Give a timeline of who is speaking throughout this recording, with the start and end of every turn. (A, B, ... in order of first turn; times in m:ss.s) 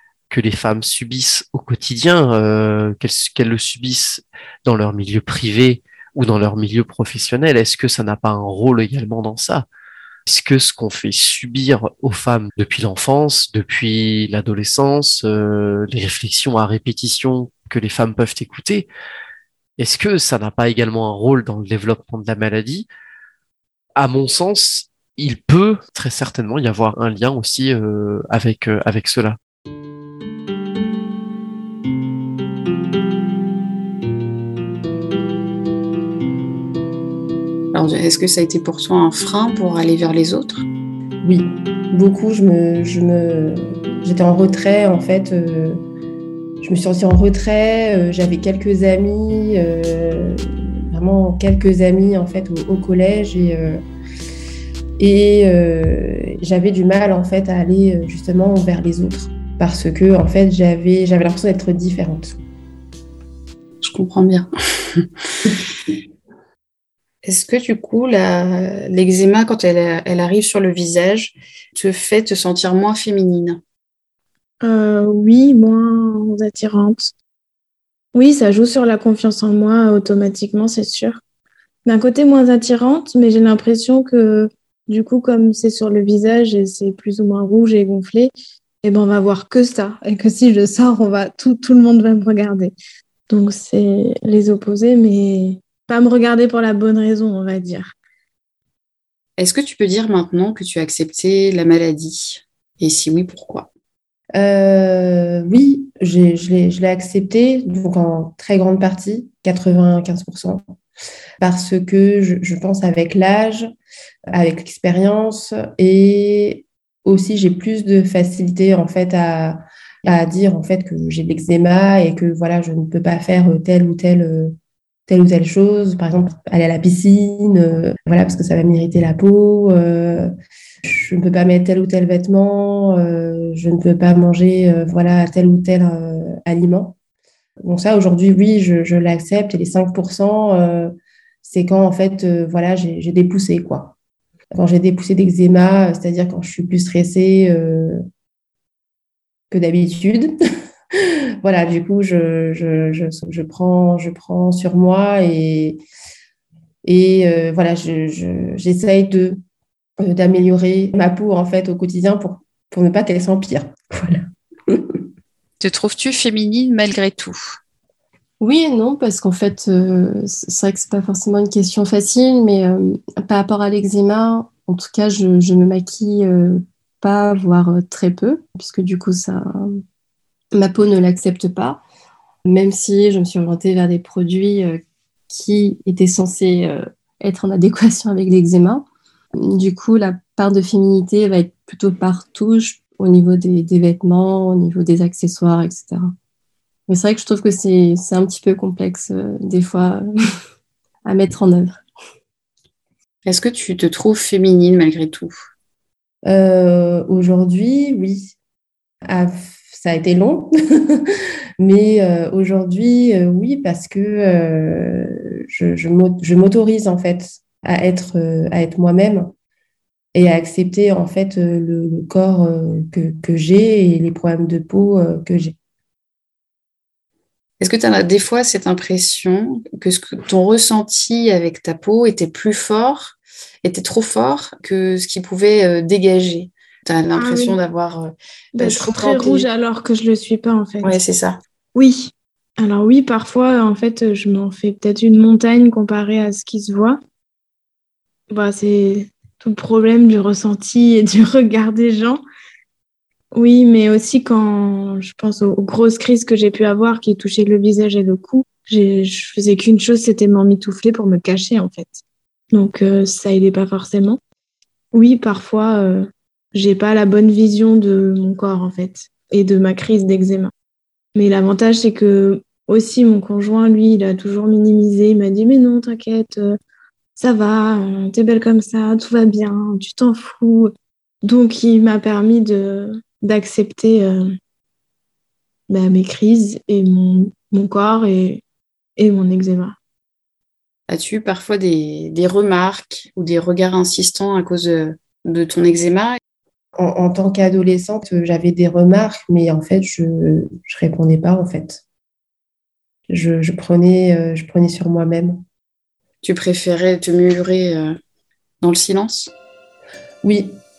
0:00.3-0:09.7 A
0:10.3-0:18.9 A
0:19.8-0:22.9 A
0:24.0-0:29.4 A
0:37.7-0:40.7 B
0:41.2-0:45.8 C
0:46.6-0:53.8 C
0:55.0-1:02.4 C
1:03.8-1:05.1 B
1:07.2-1:13.6 B
1:14.6-1:17.1 D
1:18.1-1:21.2 D
1:21.9-1:28.3 D
1:28.8-1:32.7 D
1:33.3-1:37.9 D
1:39.4-1:43.7 B
1:44.4-1:50.6 C
1:51.4-1:53.7 C
1:54.3-2:04.5 C
2:05.1-2:10.3 C
2:10.9-2:17.0 C
2:17.6-2:24.0 C
2:24.5-2:28.0 C
2:29.5-2:30.3 C
2:30.9-2:35.8 C
2:36.8-2:39.4 C
2:40.0-2:45.0 C
2:45.6-2:47.6 B
2:48.4-2:59.8 E
3:00.6-3:01.8 E
3:02.5-3:08.8 E
3:09.4-3:16.1 E
3:16.9-3:20.0 E
3:21.0-3:21.8 E
3:23.3-3:25.3 B
3:26.2-3:28.4 C
3:29.0-3:39.3 C
3:40.1-3:45.6 C
3:47.6-3:59.5 B
3:57.2-3:57.6 D
3:58.6-4:01.0 D
4:00.8-4:01.4 B
4:01.8-4:07.0 D
4:08.3-4:12.2 D
4:13.3-4:22.0 D
4:22.5-4:24.2 D
4:24.9-4:30.5 D
4:31.2-4:36.6 D
4:37.2-4:40.7 D
4:41.2-4:44.3 D
4:45.7-4:48.4 D
4:49.0-4:49.8 D
4:50.9-4:56.2 B
4:56.8-5:01.8 C
5:03.1-5:05.4 C
5:06.2-5:08.0 B
5:08.6-5:09.3 B
5:10.2-5:10.6 C